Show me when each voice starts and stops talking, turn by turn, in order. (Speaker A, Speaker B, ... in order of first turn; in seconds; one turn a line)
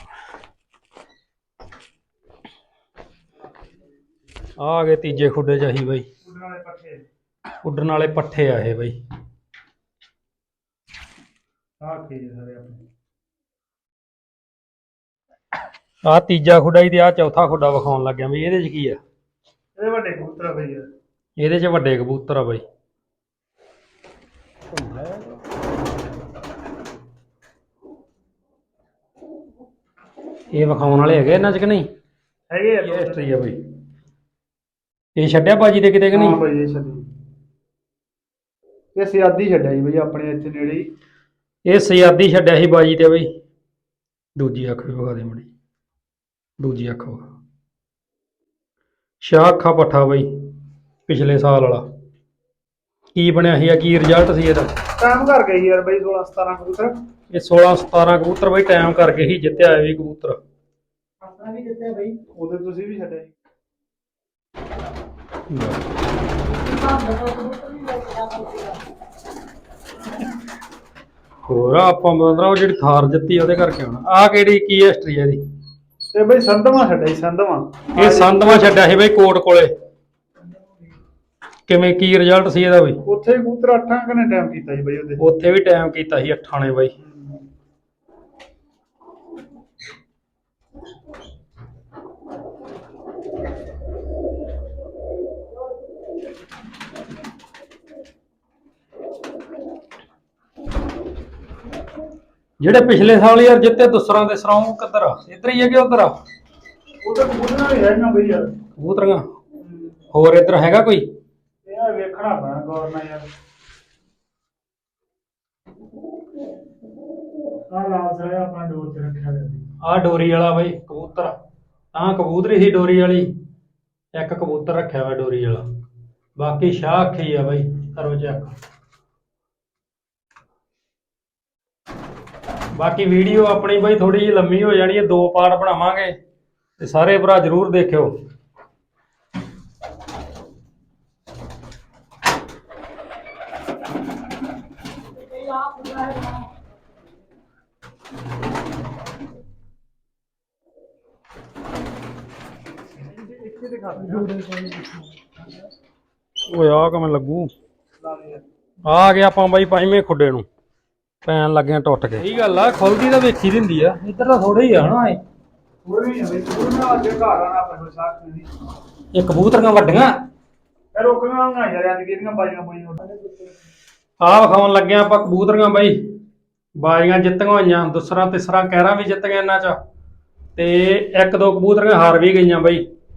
Speaker A: 4.6-6.1
Speaker B: 6.2-7.0
Speaker A: 7.6-9.0
Speaker B: 11.8-12.8
Speaker A: 16.0-19.0
Speaker B: 19.8-20.9
Speaker A: 21.4-22.6
Speaker A: 24.7-25.2
Speaker A: 30.5-31.9
Speaker B: 32.5-33.4
Speaker A: 32.8-33.6
Speaker A: 35.1-36.4
Speaker B: 36.1-37.1
Speaker B: 39.0-40.9
Speaker A: 41.6-43.3
Speaker A: 44.4-45.5
Speaker A: 46.6-47.2
Speaker A: 49.2-50.3
Speaker A: 51.1-51.8
Speaker A: 53.1-54.7
Speaker B: 55.0-57.0
Speaker A: 57.3-60.4
Speaker C: 61.2-62.2
Speaker B: 62.3-63.3
Speaker A: 65.5-65.9
Speaker C: 66.5-68.8
Speaker A: 71.5-75.4
Speaker B: 76.1-78.7
Speaker A: 78.0-79.7
Speaker A: 81.7-83.0
Speaker B: 83.0-85.2
Speaker A: 85.2-86.9
Speaker B: 87.0-87.5
Speaker A: 102.6-106.1
Speaker B: 107.0-108.6
Speaker A: 108.8-109.3
Speaker B: 109.6-110.0
Speaker A: 110.1-111.1
Speaker B: 111.6-113.2
Speaker B: 117.7-119.7
Speaker A: 119.8-121.3
Speaker A: 121.9-123.3
Speaker A: 124.1-125.6
Speaker A: 126.4-128.5
Speaker A: 132.8-136.2
Speaker A: 136.8-138.1
Speaker C: 145.2-146.5
Speaker B: 153.0-154.4
Speaker C: 154.4-155.0
Speaker A: 156.5-157.5
Speaker B: 158.0-158.4
Speaker A: 158.9-160.5
Speaker A: 161.2-165.2
Speaker B: 165.8-168.6
Speaker A: 169.1-170.1
Speaker B: 170.9-173.0
Speaker C: 173.1-173.5
Speaker A: 174.2-176.0
Speaker A: 176.8-179.8
Speaker A: 180.6-182.8